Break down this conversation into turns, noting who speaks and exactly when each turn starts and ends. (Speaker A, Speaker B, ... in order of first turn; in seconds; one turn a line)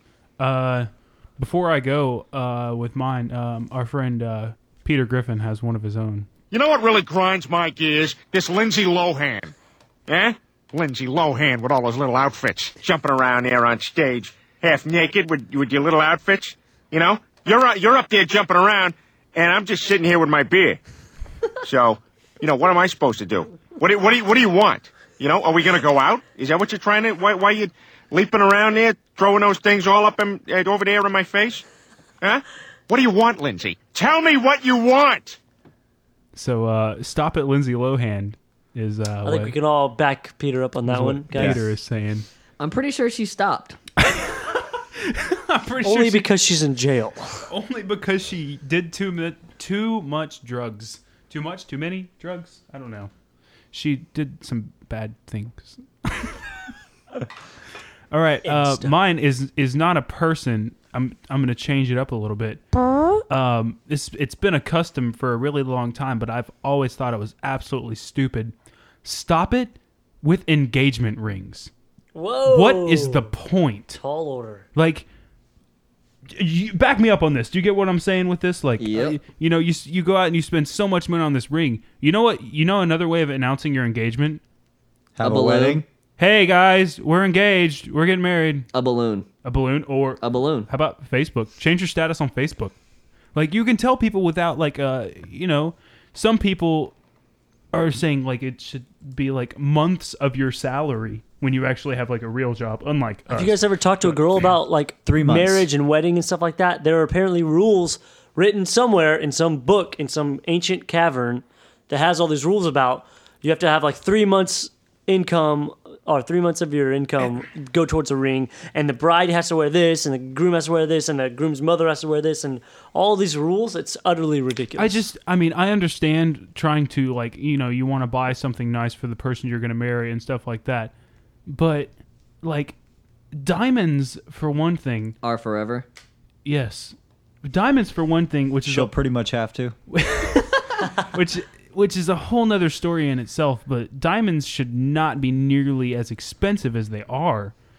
Speaker A: 0.4-6.3
Speaker B: 6.5-9.5
Speaker B: 10.1-20.8
Speaker B: 21.6-31.6
Speaker B: 32.2-35.4
Speaker A: 36.4-39.6
Speaker C: 39.2-41.6
Speaker A: 40.9-42.3
Speaker D: 41.3-41.6
Speaker E: 42.6-43.8
Speaker A: 44.0-46.3
Speaker C: 45.8-47.5
Speaker A: 47.5-53.1
Speaker A: 53.7-56.5
Speaker A: 58.1-62.6
Speaker C: 58.4-59.0
Speaker A: 63.3-68.5
Speaker A: 69.0-71.7
Speaker C: 72.2-73.3
Speaker A: 72.5-74.0
Speaker C: 74.0-74.7
Speaker A: 74.8-75.1
Speaker A: 76.3-84.4
Speaker E: 78.8-79.2
Speaker D: 85.2-85.9
Speaker E: 85.2-85.8
Speaker A: 86.2-88.7
Speaker E: 88.7-89.3
Speaker A: 89.4-92.8
Speaker E: 90.2-90.7
Speaker A: 93.3-96.9
Speaker A: 97.7-104.2
Speaker C: 103.3-125.0
Speaker D: 105.1-105.7
Speaker A: 124.8-130.9
Speaker A: 131.5-132.8
Speaker A: 133.3-135.2
Speaker E: 135.2-135.9
Speaker A: 136.4-138.9
Speaker D: 138.7-139.8
Speaker A: 139.9-147.6